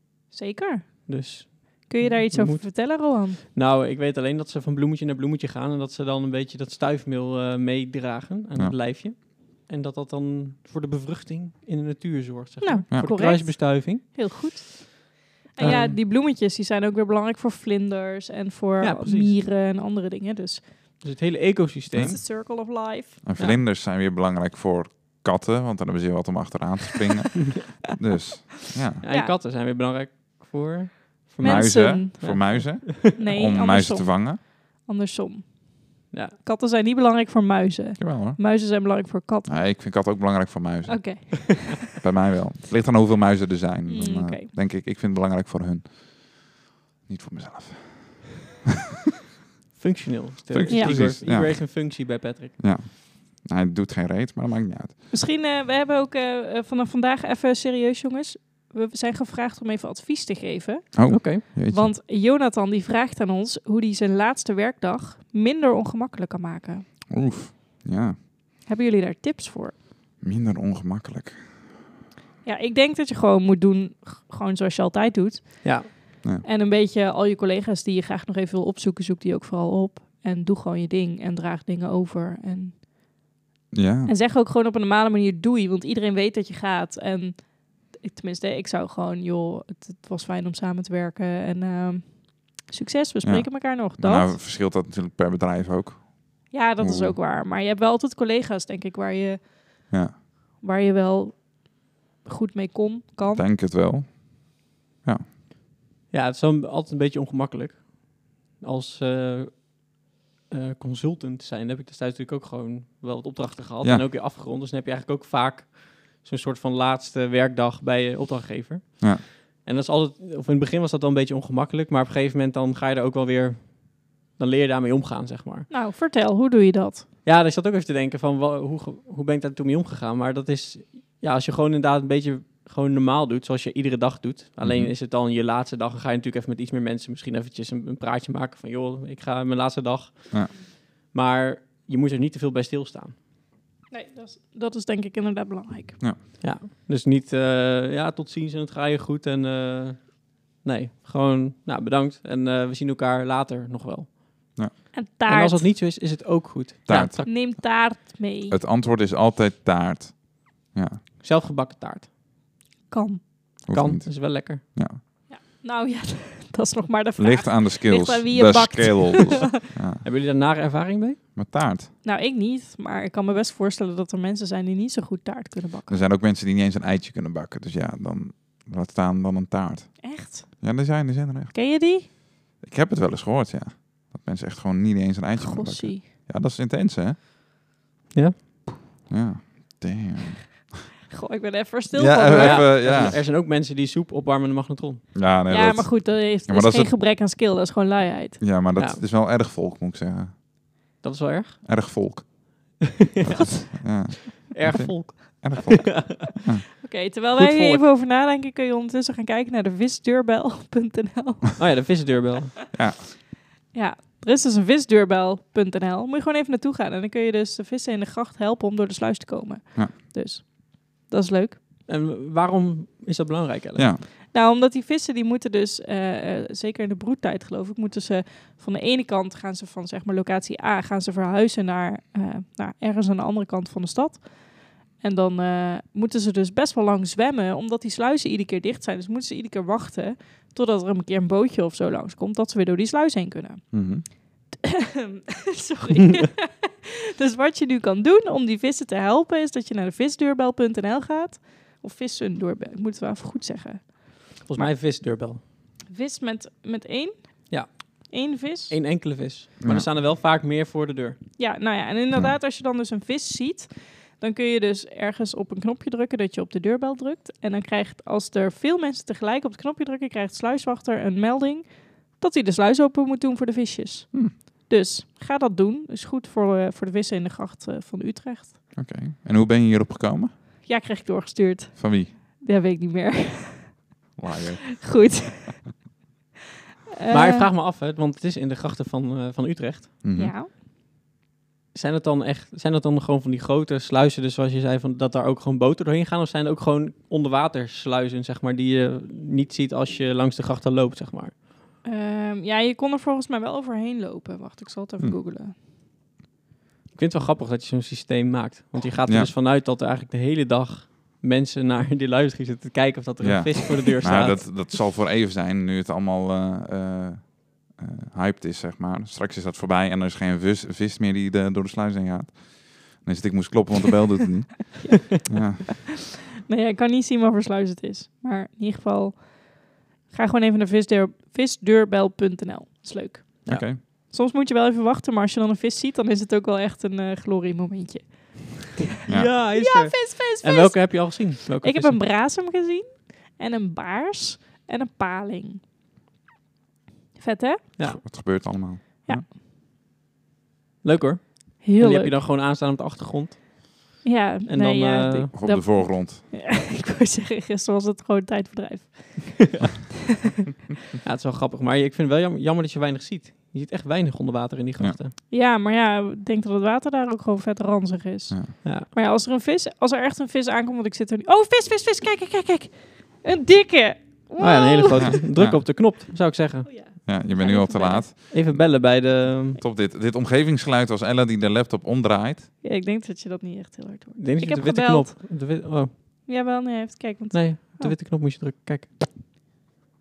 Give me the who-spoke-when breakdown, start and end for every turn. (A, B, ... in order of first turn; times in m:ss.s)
0:00.3-0:03.4 A
0:01.1-0:14.5 B
0:12.6-0:20.7 A
0:12.9-0:13.2 C
0:15.6-0:16.0 B
0:15.6-0:16.0 C
0:18.8-0:19.4 B
0:21.0-0:22.2 B
0:21.9-0:22.6 C
0:22.0-0:23.2 A
0:23.2-0:29.0 C
0:29.0-0:32.9 B
0:29.1-0:29.3 A
0:31.4-0:32.6 A
0:31.4-0:34.4 C
0:33.2-0:39.5 A
0:36.1-0:36.4 B
0:38.0-0:38.4 C
0:39.5-0:46.6 C
0:40.9-0:41.8 A
0:43.9-0:44.5 A
0:47.1-0:48.4 C
0:49.8-0:52.6 B
0:50.5-0:55.0 C
0:50.7-0:51.0 A
0:55.1-1:06.9 A
1:01.0-1:01.9 C
1:01.1-1:01.4 B
1:07.1-1:08.2 C
1:08.6-1:09.8 A
1:10.2-1:11.7 C
1:12.4-1:22.8 A
1:15.6-1:15.9 B
1:23.7-1:24.1 C
1:24.1-1:34.4 A
1:33.2-1:37.2 C
1:36.5-1:39.9 A
1:39.9-1:40.2 C
1:40.6-1:43.5 A
1:43.3-1:45.3 C
1:46.1-2:05.7 B
2:05.7-2:07.1 A
2:07.2-2:23.2 B
2:14.6-2:14.9 C
2:23.9-2:26.0 A
2:26.4-2:37.3 B
2:34.9-2:35.7 A
2:36.9-2:41.0 C
2:37.0-2:38.6 A
2:41.2-2:42.1 B
2:42.9-2:43.6 A
2:43.7-2:45.0 C
2:43.7-2:44.6 B
2:45.3-2:49.5 A
2:47.2-2:50.0 C
2:50.0-2:51.2 B
2:51.4-2:51.9 C
2:52.0-2:56.0 A
2:55.9-3:07.2 C
3:00.0-3:00.6 A
3:01.5-3:02.1 A
3:05.4-3:06.1 A
3:08.1-3:08.6 B
3:09.1-3:10.8 C
3:11.1-3:12.8 A
3:11.9-3:13.2 C
3:12.3-3:15.1 B
3:15.1-3:17.0 C
3:15.5-3:18.5 A
3:18.4-3:20.4 C
3:18.8-3:19.0 B
3:21.0-3:21.6 B
3:21.6-3:22.8 C
3:23.2-3:23.8 B
3:23.7-3:26.6 C
3:24.5-3:26.0 B
3:26.8-3:32.0 A
3:27.3-3:27.8 B
3:31.6-3:32.6 B
3:32.7-3:33.1 C
3:33.7-3:41.6 A
3:41.9-3:43.9 B
3:43.8-3:44.0 C
3:44.3-4:14.7 A
4:03.7-4:04.1 C
4:14.4-4:15.4 B
4:15.9-4:18.8 A
4:17.5-4:18.1 B
4:18.7-4:21.2 B
4:19.6-4:19.9 C
4:21.4-4:38.6 A
4:38.8-4:40.3 C
4:40.6-4:43.9 A
4:41.8-4:42.1 C
4:44.2-4:45.1 C
4:44.8-4:45.8 A
4:47.0-4:47.5 A
4:47.1-4:50.0 B
4:50.0-4:50.3 C
4:50.2-4:50.5 A
4:51.7-5:01.4 B
5:01.8-5:05.6 A
5:06.9-5:14.7 B
5:09.1-5:09.3 C
5:13.2-5:25.7 C
5:24.8-5:25.7 A
5:26.5-5:45.6 A
5:33.5-5:33.8 C
5:39.0-5:42.0 B
5:47.2-5:47.9 A
5:47.8-5:49.3 C
5:50.8-5:55.3 B
5:51.6-5:52.2 A
5:54.0-5:59.6 A
5:55.4-5:56.2 C
6:01.0-6:05.1 B
6:05.3-6:15.2 A
6:14.4-6:16.8 B
6:15.0-6:15.6 C
6:16.7-6:18.1 A
6:17.0-6:22.5 C
6:18.3-6:19.6 B
6:22.6-6:25.5 A
6:24.2-6:25.9 B
6:26.3-6:28.0 A
6:27.3-6:29.1 B